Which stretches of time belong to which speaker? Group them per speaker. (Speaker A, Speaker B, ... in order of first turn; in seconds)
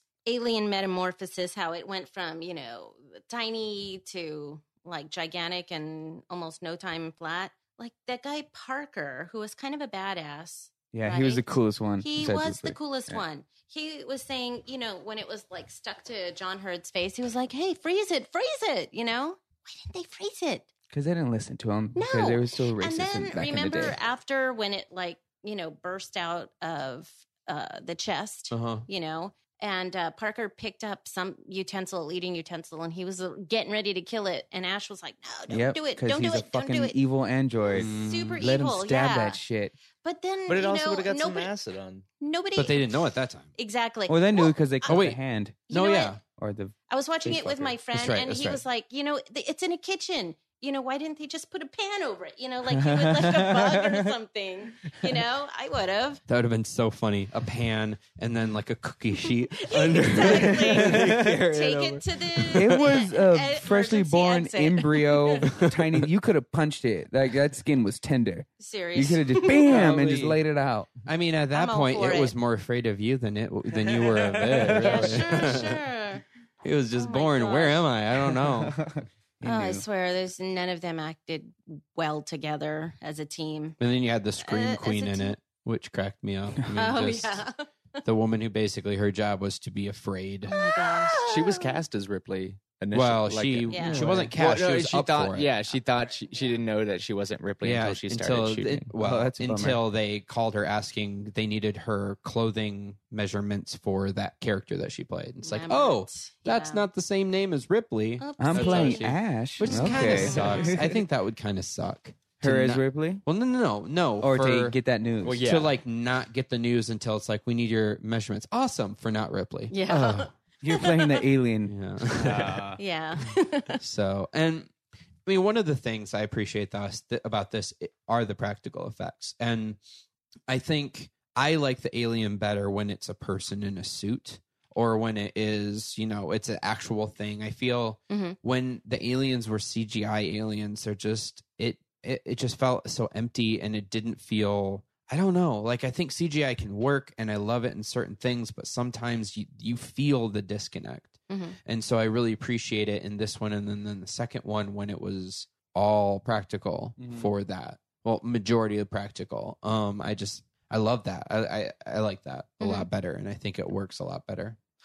Speaker A: 0.3-20.7, 21.9-37.0, 37.8-39.4, 40.0-41.5, 42.2-43.0, 43.5-45.0, 45.7-46.1, 46.9-56.2, 59.5-65.4, 68.6-69.7, 71.5-72.3, 74.8-76.2, 77.0-77.9, 79.4-83.8, 84.4-85.3, 86.7-87.7, 90.5-91.8, 93.7-94.0, 96.1-96.5, 105.4-106.8, 108.2-110.8, 119.7-121.0, 122.8-123.8, 138.1-138.4, 151.3-151.6, 162.6-162.9
Speaker B: 10.9-13.2, 20.9-23.9, 35.5-39.7, 44.1-45.6, 46.3-47.7, 52.7-54.1, 60.0-61.5, 62.5-70.9, 73.8-75.2, 78.7-79.8, 93.8-94.3, 99.0-99.8, 108.4-111.0, 112.4-113.2, 114.2-115.4, 120.6-122.8, 157.0-157.3
Speaker C: 28.5-28.9, 37.7-38.4, 42.5-43.5, 44.8-46.2, 47.4-48.6, 56.3-61.4, 65.5-66.0, 69.7-70.4, 71.0-75.8, 76.6-78.9, 83.8-87.4, 88.0-90.5, 92.9-95.5, 97.6-114.8, 115.4-120.3, 121.7-122.6, 123.8-124.7, 125.3-129.8, 130.5-164.6
Speaker D: 40.5-42.0, 91.2-98.9, 110.1-110.5, 115.2-115.7, 122.2-122.6